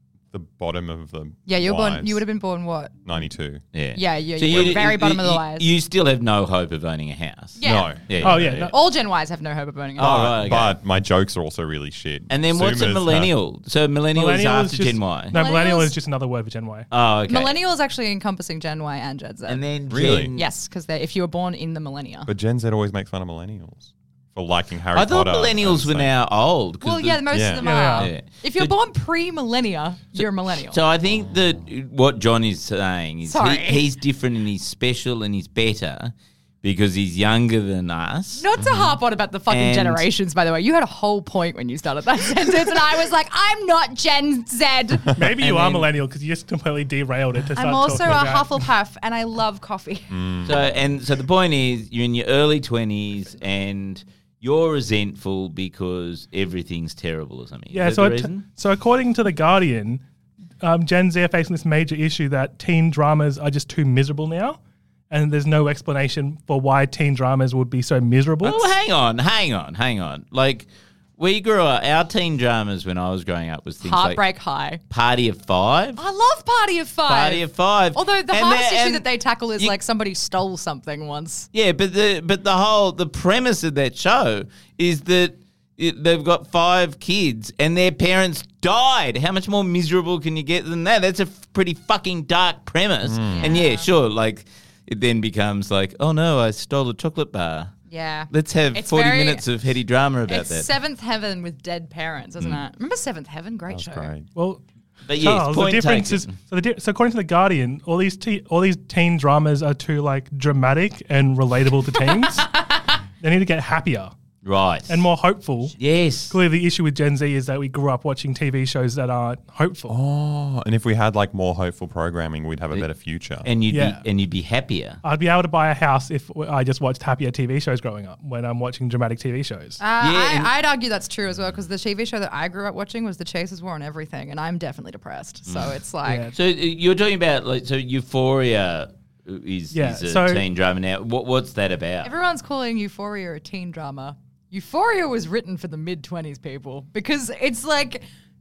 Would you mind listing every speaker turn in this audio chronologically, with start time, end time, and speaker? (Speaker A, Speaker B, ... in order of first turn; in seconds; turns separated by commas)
Speaker A: 0.3-2.3, Speaker B: 1.5-2.9, Speaker A: 3.0-3.6, Speaker C: 3.7-8.7, Speaker B: 3.9-5.7, Speaker A: 4.5-4.9, Speaker B: 7.6-8.0, Speaker A: 7.6-8.7, Speaker D: 8.2-8.8, Speaker B: 8.7-10.2, Speaker C: 10.0-10.8, Speaker A: 10.0-13.4, Speaker C: 12.3-15.4, Speaker D: 14.1-16.9, Speaker B: 15.3-16.0, Speaker C: 16.9-17.6, Speaker B: 17.2-19.7, Speaker C: 19.5-20.5, Speaker A: 19.8-20.3, Speaker B: 20.3-22.3, Speaker A: 22.2-26.1, Speaker C: 24.9-27.3, Speaker B: 26.8-30.8, Speaker A: 27.3-27.7, Speaker D: 27.6-28.1, Speaker C: 27.9-28.7, Speaker C: 30.1-38.5, Speaker B: 33.2-33.9, Speaker B: 38.4-45.1, Speaker A: 38.6-38.9, Speaker C: 39.5-40.0, Speaker D: 45.1-48.7, Speaker C: 45.3-45.9, Speaker B: 47.5-50.1, Speaker A: 50.1-50.8, Speaker C: 50.4-58.5, Speaker D: 57.7-60.0, Speaker D: 60.6-64.6, Speaker D: 65.1-68.7, Speaker C: 68.4-74.2, Speaker B: 73.8-74.8, Speaker C: 74.9-76.0, Speaker B: 76.0-81.5, Speaker C: 77.1-79.8, Speaker C: 81.5-97.7, Speaker A: 93.0-93.5, Speaker B: 93.3-93.9, Speaker B: 97.9-99.5, Speaker C: 98.3-100.7, Speaker B: 100.2-104.1, Speaker A: 103.7-104.3, Speaker D: 104.3-104.6, Speaker C: 105.0-106.3, Speaker D: 105.1-112.5, Speaker B: 112.0-112.3, Speaker D: 113.2-114.1, Speaker C: 114.4-115.1, Speaker D: 114.9-115.7, Speaker C: 115.8-116.3, Speaker D: 116.3-119.9, Speaker A: 119.9-123.6, Speaker C: 123.4-125.0, Speaker D: 123.7-124.0, Speaker D: 125.0-129.8, Speaker B: 129.8-136.2, Speaker C: 129.9-130.5, Speaker C: 135.4-135.7, Speaker D: 136.0-136.3, Speaker C: 136.3-142.1, Speaker D: 139.7-140.4, Speaker B: 142.0-148.0